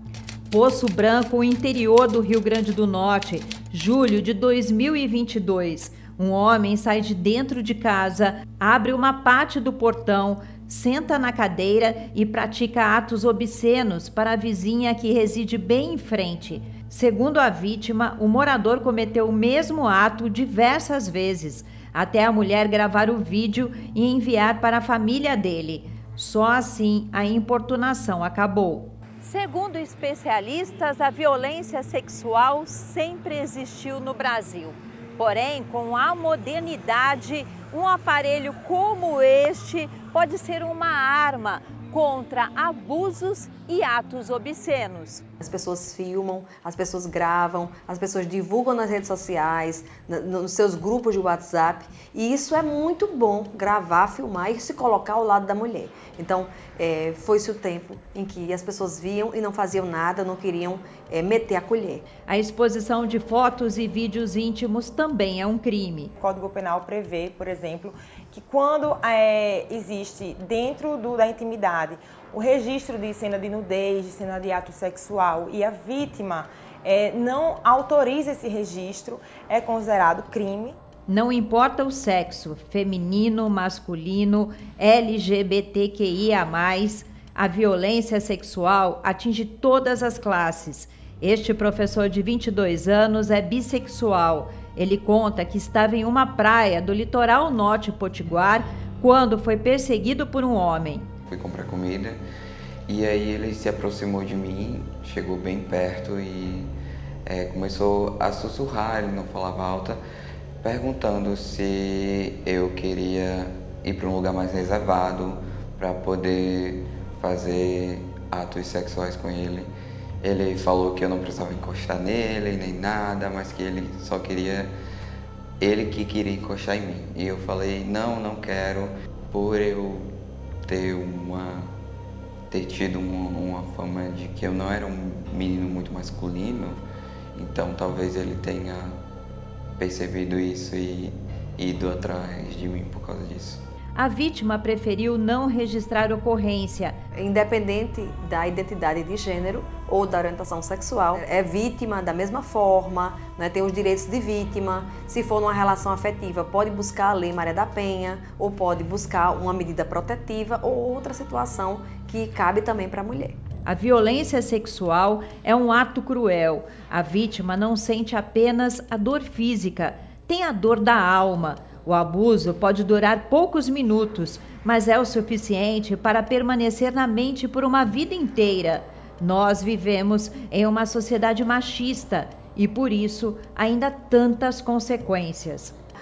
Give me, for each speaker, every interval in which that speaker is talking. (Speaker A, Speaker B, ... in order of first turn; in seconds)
Speaker A: 0.5-45.2, 62.3-66.1, 81.1-101.1, 143.9-146.9, 163.7-185.7
Speaker B: 45.4-62.0, 147.2-163.4
Speaker C: 66.2-80.8
Speaker D: 101.3-102.2, 102.9-106.7, 107.2-110.0, 110.6-119.7, 120.2-124.7, 125.6-130.1, 130.7-131.7, 132.5-136.8, 137.3-138.9, 139.8-143.6